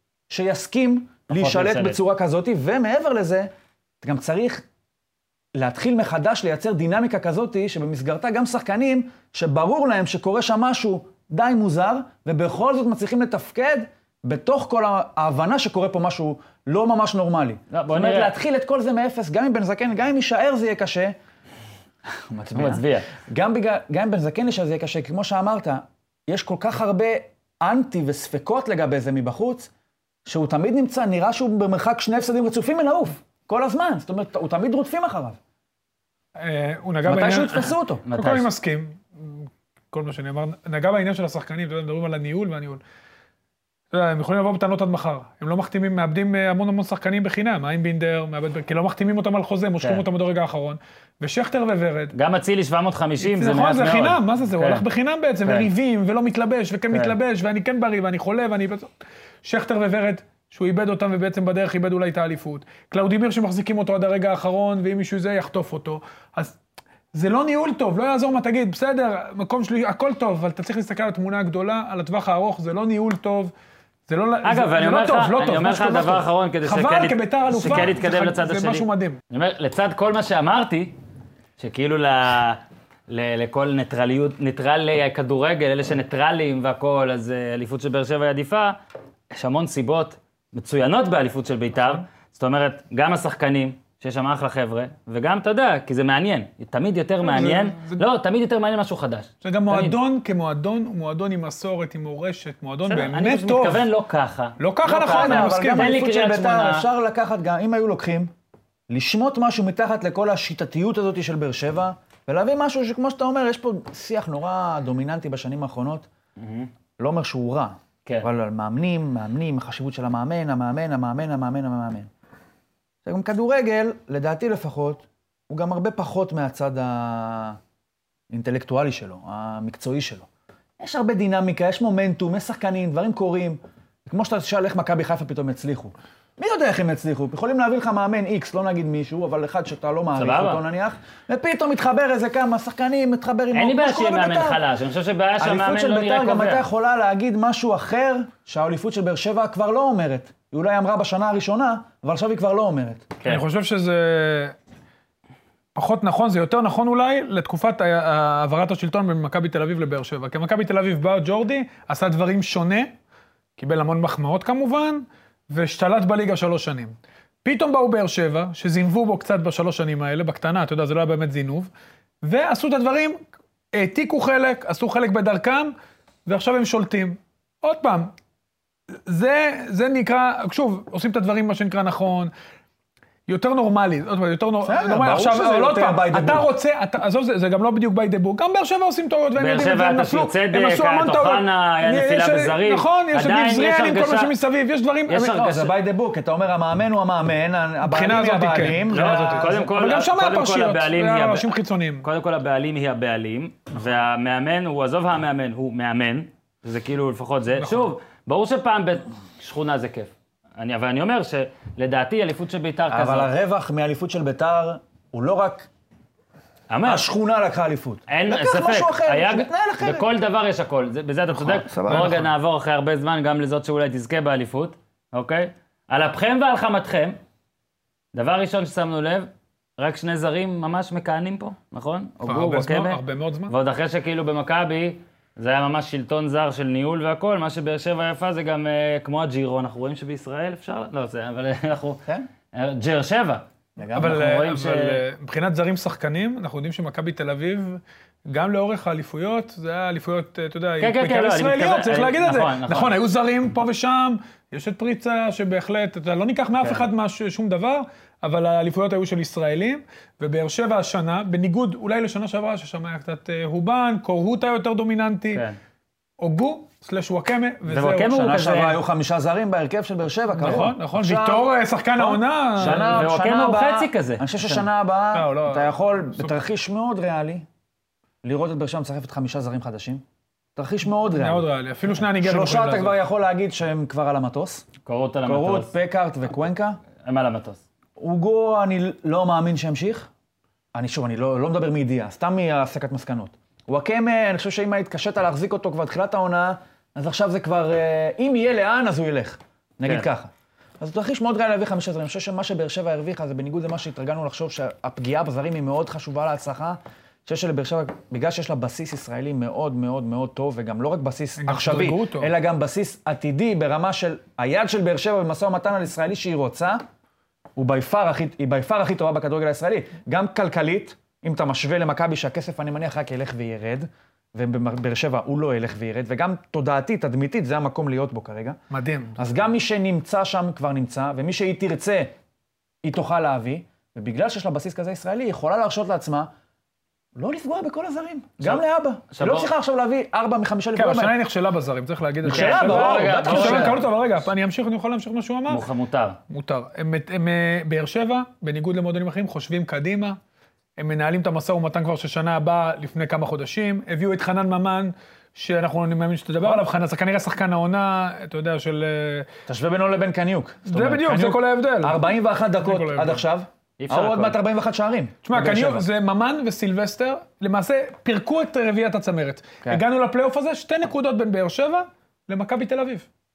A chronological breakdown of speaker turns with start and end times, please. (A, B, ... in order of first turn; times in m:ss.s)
0:00.3-0:03.5 A
0:01.3-0:02.0 B
0:04.0-0:04.6 A
0:05.6-0:21.1 A
0:17.7-0:18.3 B
0:22.2-0:29.7 A
0:22.5-0:23.1 B
0:30.2-0:35.4 A
0:36.4-0:42.8 C
0:37.0-0:38.0 A
0:38.0-0:38.5 B
0:43.9-0:52.1 C
0:52.1-0:54.8 B
0:53.2-0:58.9 C
0:59.4-1:06.6 C
1:07.1-1:13.5 C
1:14.1-1:19.2 C
1:14.4-1:21.0 B
1:21.6-1:28.8 B
1:29.3-1:40.0 B
1:37.2-1:38.0 C
1:39.4-1:43.9 C
1:42.8-1:46.8 B
1:44.6-1:46.0 C
1:44.9-1:48.3 A
1:48.9-1:56.1 A
1:56.4-1:56.7 B
1:57.0-2:02.1 A
2:03.0-2:07.6 A
2:08.3-2:10.3 A
2:10.8-2:24.6 A
2:20.2-2:20.6 B
2:23.5-2:26.6 B
2:25.4-2:33.1 A
2:33.2-2:34.5 C
2:35.7-2:42.9 C
2:43.6-2:51.7 C
2:52.2-2:53.2 C
2:53.7-2:55.7 C
2:56.2-2:58.1 C
2:59.0-3:02.3 C
3:03.3-3:15.4 C
3:04.6-3:06.5 A
3:09.4-3:14.3 B
3:15.1-3:15.7 B
3:15.3-3:19.7 A
3:17.8-3:22.0 C
3:18.9-3:21.5 B
3:22.0-3:33.3 B
3:27.6-3:27.9 C
3:32.9-3:35.7 A
3:36.7-3:37.0 B
3:36.8-3:40.1 A
3:38.1-3:47.2 B
3:41.3-3:42.3 A
3:41.9-3:42.2 C
3:48.1-4:02.0 B
3:52.2-3:53.5 C
4:02.5-4:05.0 B
4:03.8-4:04.3 A
4:03.9-4:25.4 C
4:10.8-4:13.0 B
4:16.6-4:16.9 B
4:25.3-4:25.6 B
4:26.2-4:28.3 C
4:27.6-4:28.8 B
4:28.1-4:37.4 A
4:30.4-4:33.1 C
4:32.6-4:34.6 B
4:35.1-4:36.3 C
4:38.2-4:40.0 A
4:40.6-4:41.4 A
4:41.1-4:43.0 C
4:42.2-4:44.7 A
4:44.8-4:45.7 B
4:45.2-4:46.8 A
4:47.0-4:47.6 B
4:48.0-4:50.1 A
4:50.7-5:16.8 A
5:11.4-5:12.3 C
5:17.6-5:28.6 A
5:28.7-5:29.2 C
5:29.2-5:32.1 A
5:32.8-5:36.3 A
5:37.2-5:41.2 A
5:38.4-5:39.5 B
5:40.8-5:45.6 C
5:42.2-5:43.8 A
5:42.2-5:43.8 B
5:45.5-5:46.2 B
5:46.3-5:50.2 C
5:50.8-5:59.3 C
5:59.5-6:05.8 A
6:00.7-6:02.0 C
6:02.6-6:03.2 C
6:03.8-6:04.4 B
6:05.2-6:13.1 C